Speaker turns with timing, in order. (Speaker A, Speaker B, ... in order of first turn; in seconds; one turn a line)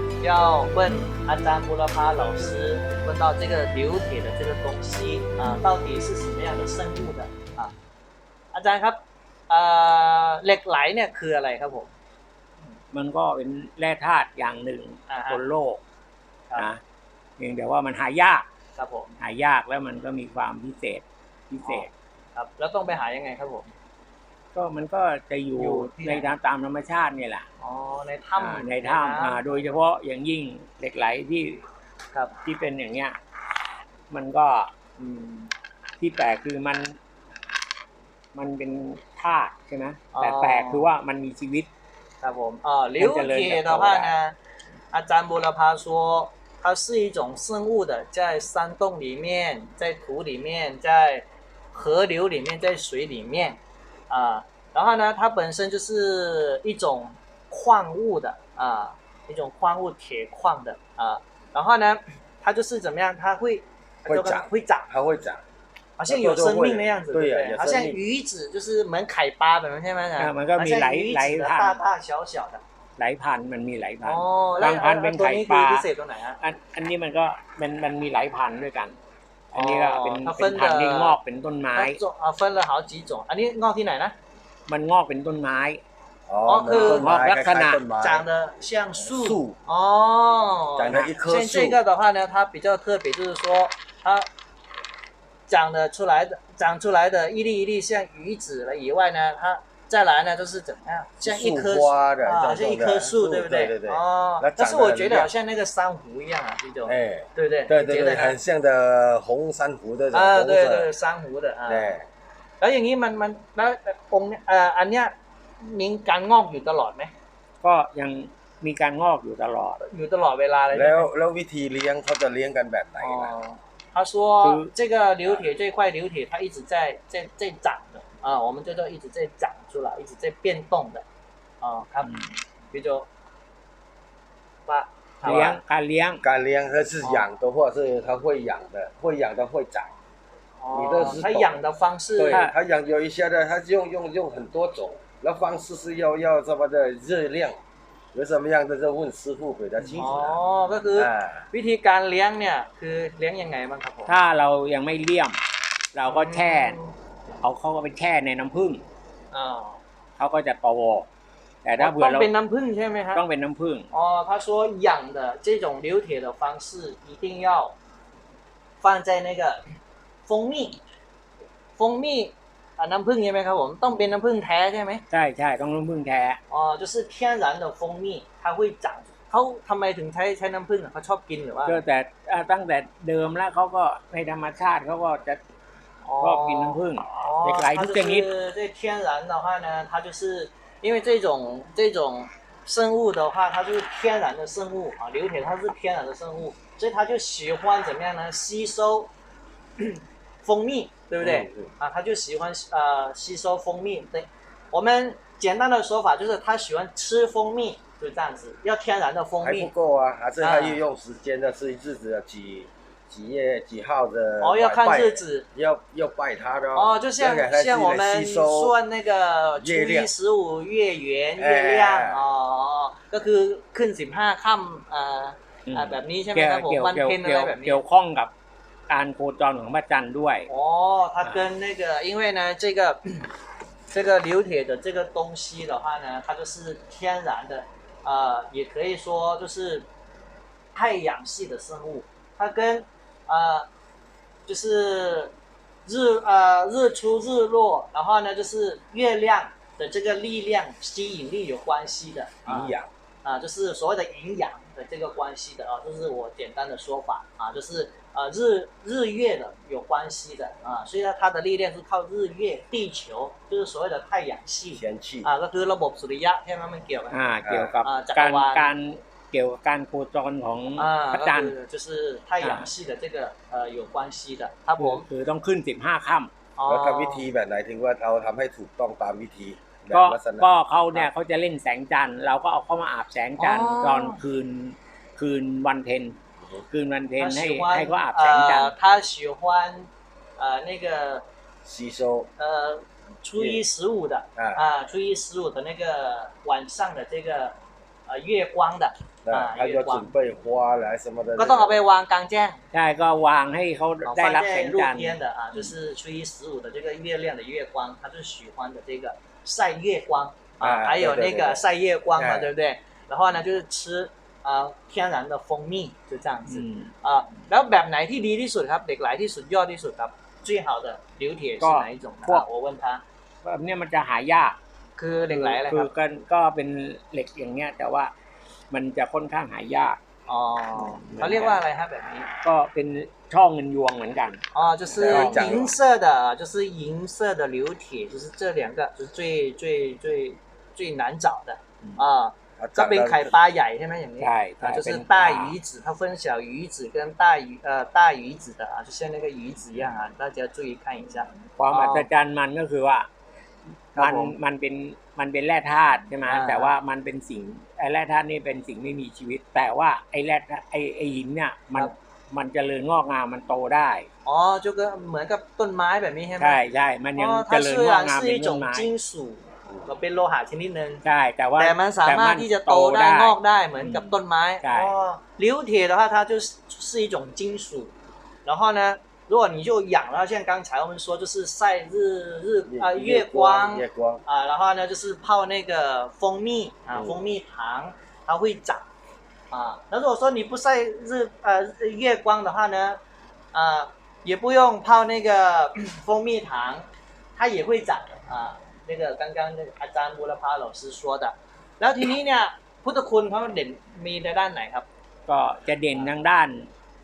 Speaker A: 0.2-7.7
Speaker A: 8.5-11.9
Speaker B: 12.9-15.8
Speaker A: 15.1-15.4
Speaker B: 16.6-16.8
Speaker B: 17.4-18.4
Speaker A: 18.8-19.1
Speaker B: 19.2-21.9
Speaker A: 21.6-23.7
Speaker B: 24.5-27.4
Speaker A: 25.6-26.3
Speaker A: 27.6-29.4
Speaker B: 28.4-31.6
Speaker B: 32.4-33.2
Speaker B: 34.1-34.7
Speaker A: 35.0-35.5
Speaker B: 36.0-37.0
Speaker B: 38.3-41.7
Speaker A: 40.1-40.9
Speaker A: 42.2-44.3
Speaker B: 43.0-44.1
Speaker A: 44.9-53.6
Speaker A: 54.1-64.9
Speaker C: 64.1-65.4
Speaker A: 66.0-72.6
Speaker C: 66.1-68.0
Speaker B: 70.2-71.8
Speaker B: 73.0-75.8
Speaker A: 74.0-76.4
Speaker B: 76.4-78.9
Speaker B: 79.5-82.0
Speaker A: 79.5-81.2
Speaker A: 81.7-84.1
Speaker B: 84.7-85.8
Speaker C: 86.3-88.2
Speaker A: 86.5-87.1
Speaker B: 86.6-87.8
Speaker A: 88.0-94.3
Speaker C: 89.0-89.5
Speaker C: 90.8-91.8
Speaker A: 95.5-108.4
Speaker C: 101.2-105.3
Speaker C: 106.8-110.9
Speaker A: 110.1-112.0
Speaker C: 111.7-112.0
Speaker A: 112.6-117.1
Speaker B: 117.6-119.8
Speaker A: 119.8-121.1
Speaker C: 120.7-123.3
Speaker A: 123.0-131.0
Speaker B: 124.4-124.7
Speaker A: 131.6-132.1
Speaker A: 132.7-133.1
Speaker A: 134.7-135.6
Speaker B: 135.2-136.2
Speaker C: 136.2-139.9
Speaker A: 140.6-142.4
Speaker C: 140.7-141.6
Speaker C: 142.2-147.6
Speaker C: 148.1-150.4
Speaker A: 150.0-154.1
Speaker C: 150.9-151.5
Speaker B: 154.1-155.4
Speaker B: 155.9-156.8
Speaker A: 156.1-156.9
Speaker B: 157.4-158.8
Speaker A: 159.3-159.8
Speaker B: 160.2-161.1
Speaker B: 161.6-162.3
Speaker A: 161.8-163.2
Speaker B: 163.1-163.9
Speaker A: 163.9-167.7
Speaker A: 168.8-169.6
Speaker A: 170.3-170.8
Speaker A: 171.8-175.0
Speaker B: 175.1-176.4
Speaker A: 176.5-181.8
Speaker B: 181.7-185.4
Speaker A: 186.0-199.1
Speaker B: 186.2-188.3
Speaker A: 199.8-209.7
Speaker C: 201.2-201.7
Speaker C: 209.4-218.8
Speaker A: 210.4-210.8
Speaker A: 214.4-215.4
Speaker A: 216.7-227.8
Speaker C: 219.6-220.1
Speaker C: 221.4-222.2
Speaker B: 225.7-228.3
Speaker B: 228.9-230.5
Speaker A: 230.5-233.3
Speaker A: 233.9-239.8
Speaker A: 240.7-243.7
Speaker A: 244.5-245.3
Speaker A: 245.8-267.2
Speaker C: 252.4-252.9
Speaker C: 264.8-265.3
Speaker B: 267.1-271.5
Speaker C: 267.4-267.7
Speaker A: 267.8-268.7
Speaker A: 270.8-275.0
Speaker B: 272.4-272.7
Speaker B: 274.8-276.3
Speaker A: 276.6-277.3
Speaker C: 276.7-281.0
Speaker B: 279.9-286.2
Speaker A: 283.4-284.2
Speaker B: 286.7-288.7
Speaker A: 287.2-291.2
Speaker C: 291.6-292.3
Speaker A: 292.4-297.6
Speaker C: 293.4-293.6
Speaker C: 294.4-294.6
Speaker A: 298.1-300.1
Speaker C: 299.2-301.8
Speaker A: 301.4-302.6
Speaker B: 302.7-305.2
Speaker A: 304.1-323.0
Speaker C: 310.6-311.6
Speaker C: 312.1-312.5
Speaker B: 316.5-316.9
Speaker B: 321.6-322.4
Speaker B: 323.4-324.6
Speaker A: 325.0-325.9
Speaker B: 325.2-328.1
Speaker B: 328.7-330.0
Speaker A: 330.3-332.3
Speaker B: 330.8-331.6
Speaker B: 332.4-335.7
Speaker A: 334.5-352.1
Speaker C: 335.0-335.7
Speaker C: 342.6-343.3
Speaker B: 344.2-345.6
Speaker B: 351.6-353.1
Speaker A: 353.9-354.3
Speaker B: 353.9-364.1
Speaker A: 356.3-356.7
Speaker A: 364.2-366.6
Speaker B: 366.4-368.9
Speaker A: 367.1-371.0
Speaker B: 371.0-374.9
Speaker A: 371.6-377.9
Speaker A: 378.4-388.8
Speaker C: 382.7-384.2
Speaker A: 389.5-393.0
Speaker A: 393.5-404.9
Speaker B: 405.3-406.7